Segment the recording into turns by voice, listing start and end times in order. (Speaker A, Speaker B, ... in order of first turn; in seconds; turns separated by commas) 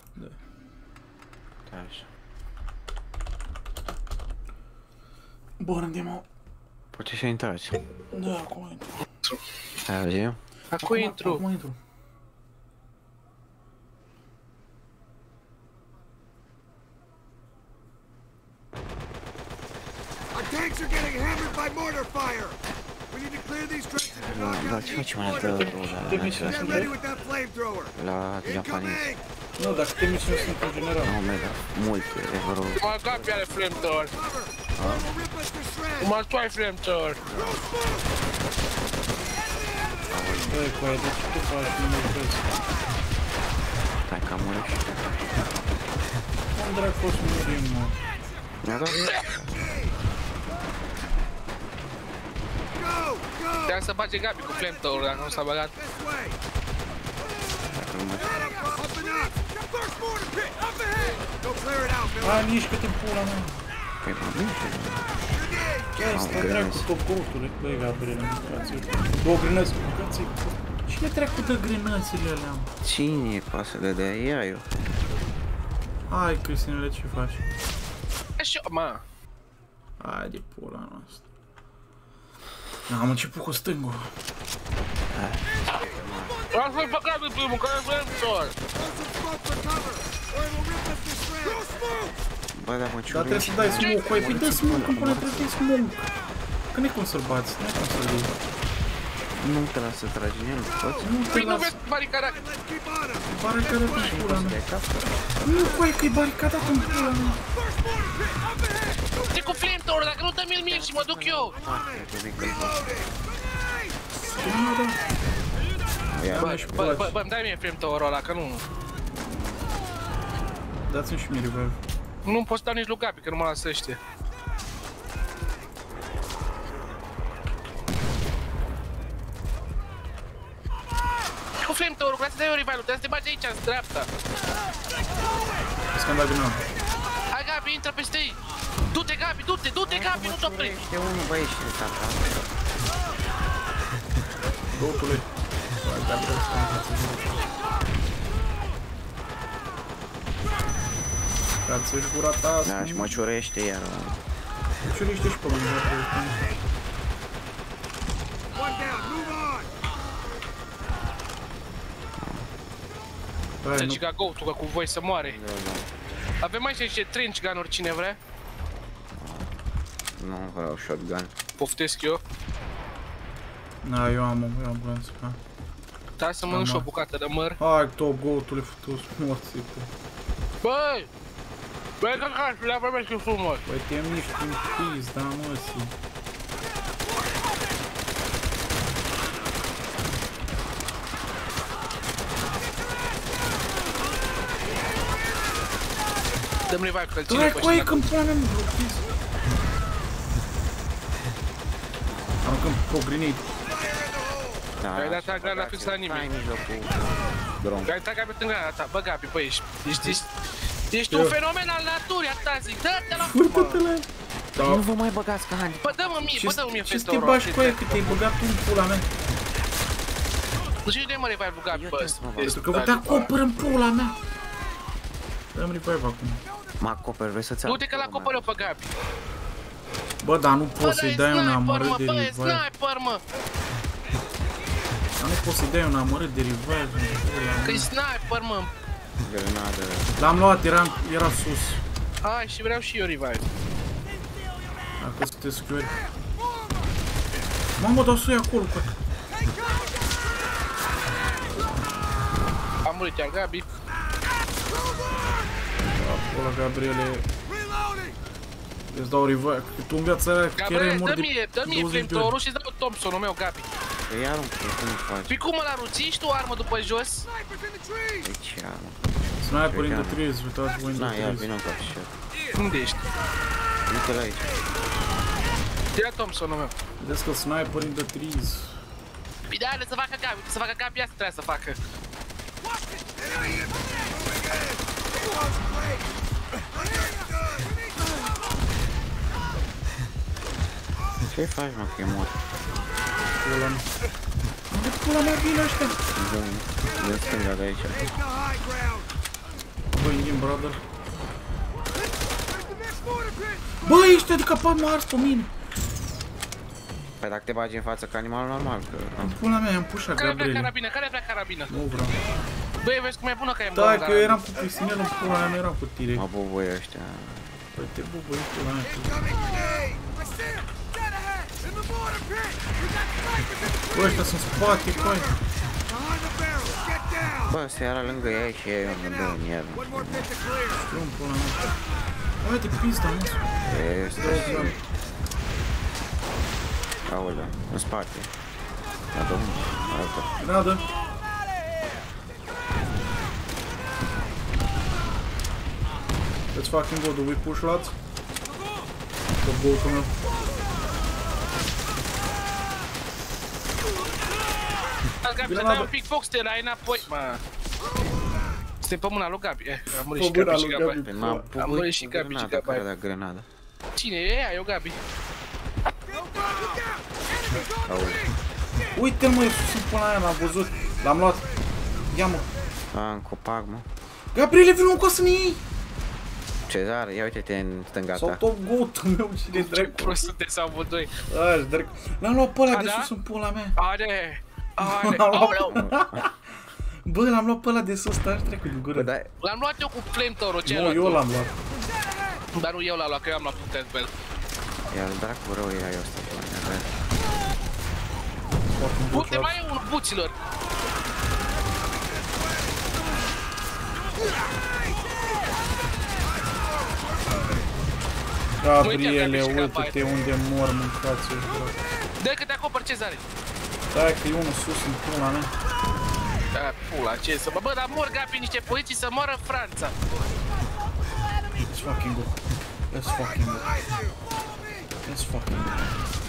Speaker A: 1.7-2.1, Speaker B: 5.6-6.2, Speaker A: 6.9-7.8, Speaker B: 8.1-9.0, Speaker A: 9.8-10.4, Speaker C: 10.7-11.4, Speaker B: 10.8-11.8, Speaker D: 20.3-22.6, Speaker D: 23.1-29.2, Speaker A: 24.1-26.9, Speaker B: 25.4-26.9, Speaker A: 28.0-29.1, Speaker B: 29.6-31.2, Speaker A: 31.0-33.4, Speaker C: 32.8-34.1, Speaker D: 33.1-36.1, Speaker A: 34.8-35.1, Speaker C: 36.0-37.2, Speaker A: 37.2-37.7, Speaker D: 37.4-38.0, Speaker A: 40.1-40.6, Speaker B: 40.5-42.5, Speaker A: 44.1-45.0, Speaker B: 46.5-48.0, Speaker A: 48.6-49.5, Speaker D: 49.5-50.0, Speaker D: 52.7-53.8, Speaker C: 53.7-55.7, Speaker D: 54.4-56.4, Speaker A: 57.7-58.5, Speaker D: 58.2-62.5, Speaker B: 62.2-63.6, Speaker A: 64.0-65.1, Speaker D: 65.3-66.0, Speaker B: 66.0-72.7, Speaker A: 66.0-66.9, Speaker A: 72.8-74.7, Speaker B: 76.1-77.4, Speaker C: 78.4-79.0, Speaker B: 80.0-81.2, Speaker B: 82.9-84.1, Speaker A: 85.1-86.4, Speaker C: 86.5-88.6, Speaker D: 88.7-92.1, Speaker A: 92.5-95.6, Speaker B: 93.1-96.1, Speaker B: 96.7-98.3, Speaker A: 99.4-101.1, Speaker D: 100.7-101.2, Speaker B: 101.0-101.8, Speaker C: 101.3-102.4, Speaker D: 102.2-103.3, Speaker B: 103.3-104.6, Speaker A: 104.0-105.0, Speaker B: 105.4-107.4, Speaker D: 107.6-109.6, Speaker C: 109.3-111.5, Speaker A: 110.6-113.0, Speaker D: 111.5-113.1, Speaker B: 114.1-115.0, Speaker A: 116.1-116.9, Speaker B: 116.2-117.2, Speaker C: 116.4-118.7, Speaker B: 120.9-121.8, Speaker C: 122.2-124.0, Speaker C: 131.6-134.1, Speaker B: 135.9-136.6, Speaker C: 137.3-138.4, Speaker C: 138.9-140.8, Speaker A: 139.8-142.4, Speaker B: 144.7-145.3, Speaker B: 145.8-147.4, Speaker B: 151.7-153.2, Speaker A: 152.6-154.2, Speaker B: 154.8-156.4, Speaker D: 158.6-159.7, Speaker A: 162.2-162.5, Speaker B: 163.6-164.0, Speaker C: 163.8-165.4, Speaker A: 165.2-165.9, Speaker C: 166.4-168.2, Speaker A: 169.1-169.5, Speaker A: 170.2-171.3, Speaker C: 171.6-172.2, Speaker B: 173.8-175.4, Speaker C: 176.2-177.6, Speaker B: 176.5-176.9, Speaker B: 177.6-179.9, Speaker C: 180.6-181.1, Speaker C: 182.0-183.6, Speaker B: 183.7-185.9, Speaker C: 196.7-198.1, Speaker B: 197.3-199.1, Speaker B: 202.4-203.5, Speaker D: 203.7-204.6, Speaker A: 204.8-207.9, Speaker C: 204.9-206.3, Speaker C: 207.9-210.3, Speaker C: 210.9-213.8, Speaker B: 211.1-211.4, Speaker B: 213.1-214.8, Speaker A: 214.6-216.0, Speaker C: 215.8-218.2, Speaker B: 216.4-219.1, Speaker C: 220.8-223.2, Speaker A: 221.7-222.6, Speaker B: 222.4-224.2, Speaker B: 225.5-226.4, Speaker A: 226.8-228.7, Speaker C: 227.7-228.9, Speaker B: 230.2-232.7, Speaker C: 230.8-233.2, Speaker B: 235.2-237.9, Speaker C: 237.6-238.7, Speaker A: 239.2-240.1, Speaker B: 240.2-241.8, Speaker C: 242.2-243.5, Speaker B: 245.0-246.0, Speaker B: 247.8-248.9, Speaker C: 252.8-253.7, Speaker B: 255.9-257.3, Speaker D: 257.5-258.2, Speaker B: 258.9-262.4, Speaker C: 260.6-263.7, Speaker A: 264.1-265.4, Speaker C: 265.3-267.3, Speaker D: 267.3-268.3, Speaker A: 268.2-270.2, Speaker B: 269.4-271.5, Speaker A: 270.9-272.1, Speaker C: 272.6-273.0, Speaker A: 273.9-274.5, Speaker C: 275.9-276.7, Speaker B: 277.0-278.8, Speaker C: 279.5-281.8, Speaker D: 283.2-286.1, Speaker D: 286.7-287.9, Speaker A: 291.3-292.4, Speaker B: 293.4-293.9, Speaker B: 294.7-296.0, Speaker A: 296.1-298.1, Speaker D: 297.9-299.1, Speaker B: 299.9-300.8, Speaker D: 302.6-303.8, Speaker B: 303.8-305.5, Speaker A: 307.2-309.4, Speaker B: 309.2-310.7, Speaker C: 310.2-311.7, Speaker B: 311.7-312.2, Speaker C: 312.8-314.4, Speaker B: 313.8-316.3, Speaker A: 316.1-317.6, Speaker B: 317.8-319.2, Speaker D: 318.9-327.6, Speaker B: 323.9-325.3, Speaker A: 327.5-330.3, Speaker D: 328.9-330.8, Speaker B: 330.8-331.6, Speaker B: 332.4-333.4, Speaker A: 333.7-334.8, Speaker B: 334.1-334.8, Speaker A: 337.1-338.3, Speaker A: 339.1-340.4, Speaker B: 340.4-340.9, Speaker B: 346.5-347.9, Speaker B: 349.4-350.1, Speaker C: 355.2-357.4, Speaker B: 355.4-355.9, Speaker C: 358.8-361.0, Speaker B: 359.9-361.5, Speaker A: 361.0-363.5, Speaker C: 361.6-362.9, Speaker C: 364.0-365.0, Speaker D: 366.1-366.9, Speaker A: 367.8-368.3, Speaker B: 368.9-371.5, Speaker B: 372.1-372.5, Speaker A: 372.9-373.9, Speaker B: 374.3-375.6, Speaker A: 376.7-378.4, Speaker B: 378.1-380.2, Speaker C: 379.5-381.1, Speaker B: 381.3-383.8, Speaker C: 382.7-383.1, Speaker C: 383.8-385.8, Speaker B: 384.8-386.4, Speaker A: 385.7-386.2, Speaker B: 387.1-389.1, Speaker A: 388.9-389.3, Speaker C: 389.4-391.2, Speaker B: 390.6-391.6, Speaker C: 392.6-394.1, Speaker A: 394.9-396.9, Speaker B: 398.7-399.5, Speaker C: 399.1-400.4, Speaker B: 408.6-411.8, Speaker C: 408.8-410.0, Speaker C: 412.2-413.2, Speaker B: 413.9-415.5, Speaker C: 416.5-419.9, Speaker B: 421.7-423.7, Speaker D: 423.6-424.2, Speaker B: 425.1-425.7